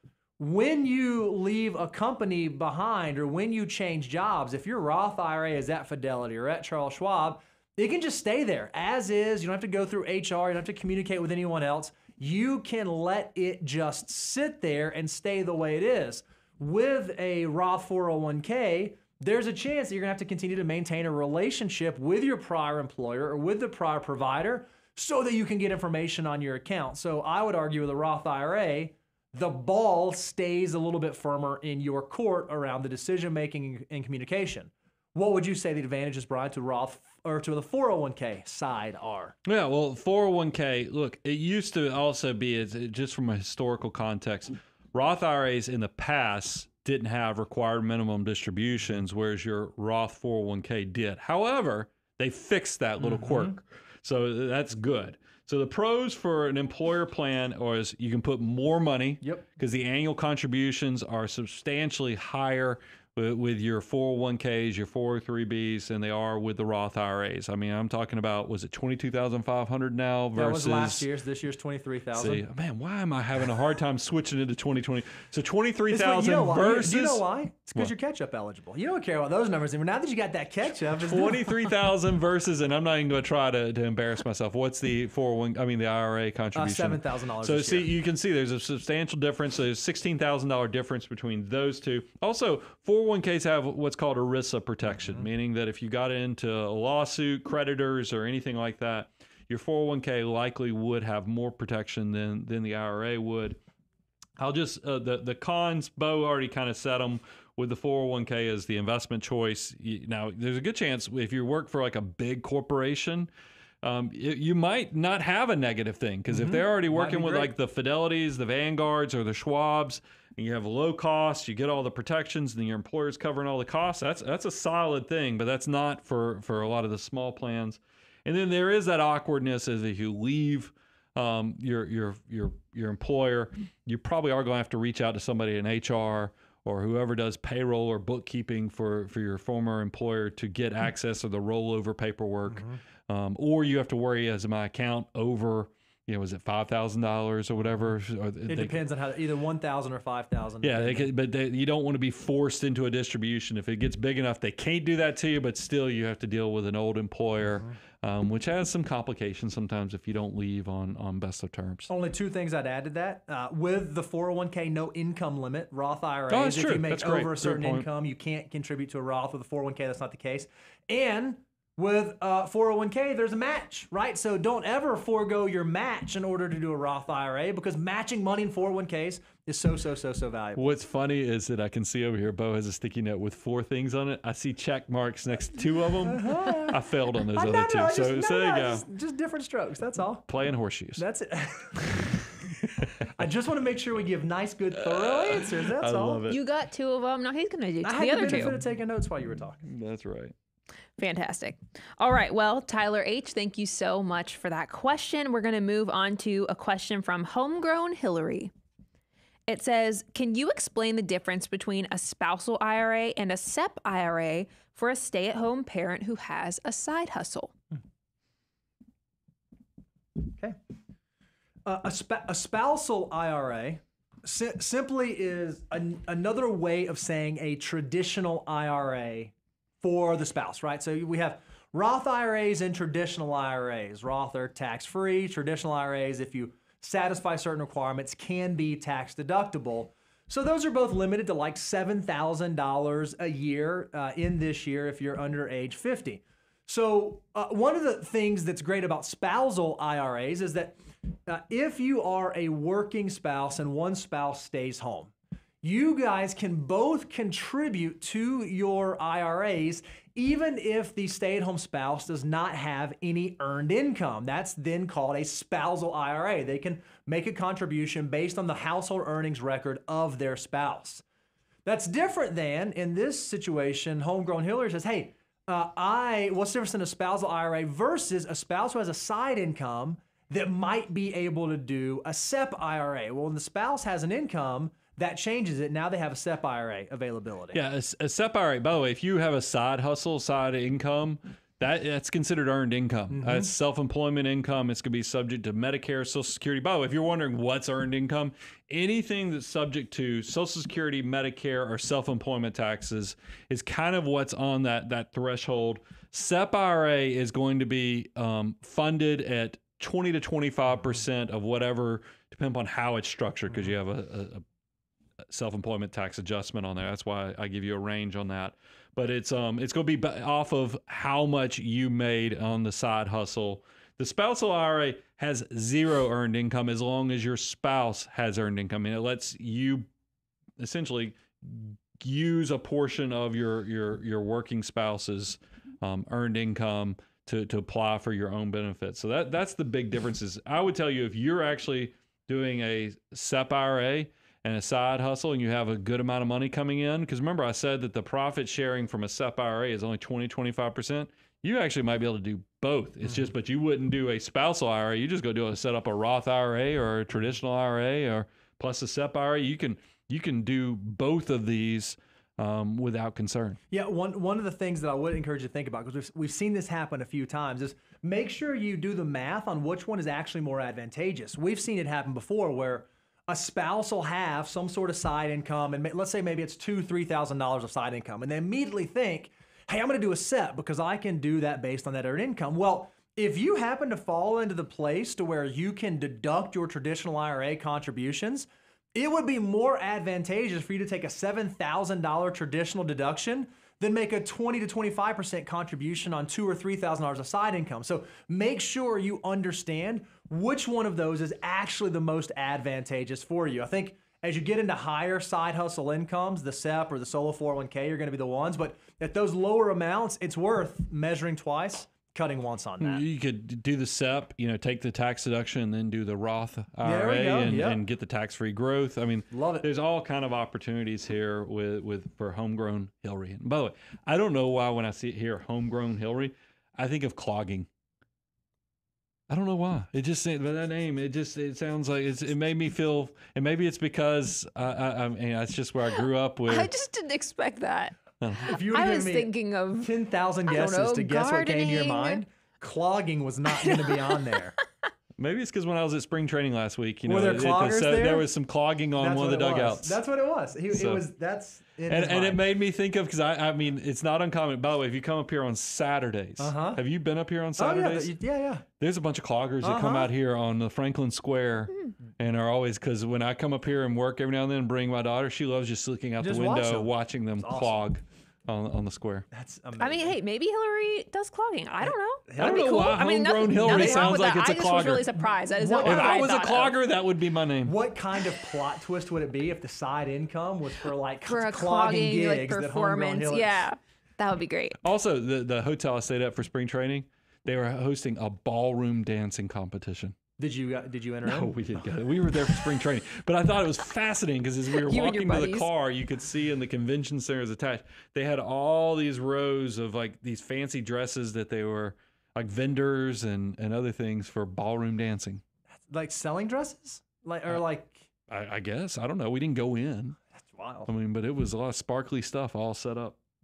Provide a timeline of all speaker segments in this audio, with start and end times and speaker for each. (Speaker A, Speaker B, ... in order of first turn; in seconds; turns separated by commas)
Speaker A: 0.4-39.4, Speaker B: 39.5-71.1, Speaker A: 53.0-53.5, Speaker A: 70.3-72.5, Speaker B: 72.1-77.2, Speaker A: 75.9-81.7, Speaker B: 81.0-103.6, Speaker A: 86.5-87.9, Speaker B: 104.4-113.3, Speaker B: 113.8-148.8, Speaker A: 116.3-117.5, Speaker A: 148.5-151.1, Speaker B: 150.6-161.9, Speaker A: 161.9-180.6, Speaker B: 166.3-167.9, Speaker B: 180.6-188.8, Speaker A: 186.0-186.8, Speaker A: 187.3-190.3, Speaker B: 190.3-191.1, Speaker A: 191.0-192.2, Speaker B: 191.9-192.9, Speaker A: 193.0-196.2, Speaker B: 194.8-196.4, Speaker C: 196.3-198.6, Speaker A: 197.8-199.7, Speaker B: 199.7-200.3, Speaker C: 201.0-208.5, Speaker C: 209.5-217.5, Speaker A: 220.2-220.6, Speaker A: 221.7-271.0, Speaker A: 271.6-287.6, Speaker B: 287.5-314.4, Speaker A: 293.1-293.5, Speaker B: 315.3-329.9, Speaker B: 330.6-363.6, Speaker A: 363.7-413.0, Speaker B: 412.8-427.7, Speaker A: 416.8-417.8, Speaker A: 419.3-419.7, Speaker B: 429.3-436.7, Speaker C: 436.5-438.0, Speaker B: 438.2-438.6, Speaker A: 438.4-444.6, Speaker C: 438.5-439.9, Speaker C: 440.5-442.2, Speaker C: 443.6-444.3, Speaker B: 445.2-450.0, Speaker A: 447.1-448.3, Speaker A: 449.0-452.4, Speaker B: 450.7-451.0, Speaker B: 451.9-458.1, Speaker A: 456.4-456.8, Speaker A: 457.6-458.6, Speaker B: 458.8-469.3, Speaker A: 459.6-460.1, Speaker A: 466.2-467.9, Speaker A: 469.3-470.2, Speaker C: 469.8-476.7, Speaker A: 472.3-472.8, Speaker B: 472.4-475.2, Speaker A: 473.6-474.2, Speaker A: 475.6-476.6, Speaker B: 475.8-477.8, Speaker A: 477.6-483.7, Speaker C: 481.3-484.8, Speaker B: 484.8-490.1, Speaker A: 490.4-491.6, Speaker B: 491.2-505.4, Speaker C: 494.8-495.7, Speaker A: 505.8-508.1, Speaker B: 508.3-510.2, Speaker A: 510.4-510.9, Speaker B: 510.9-513.2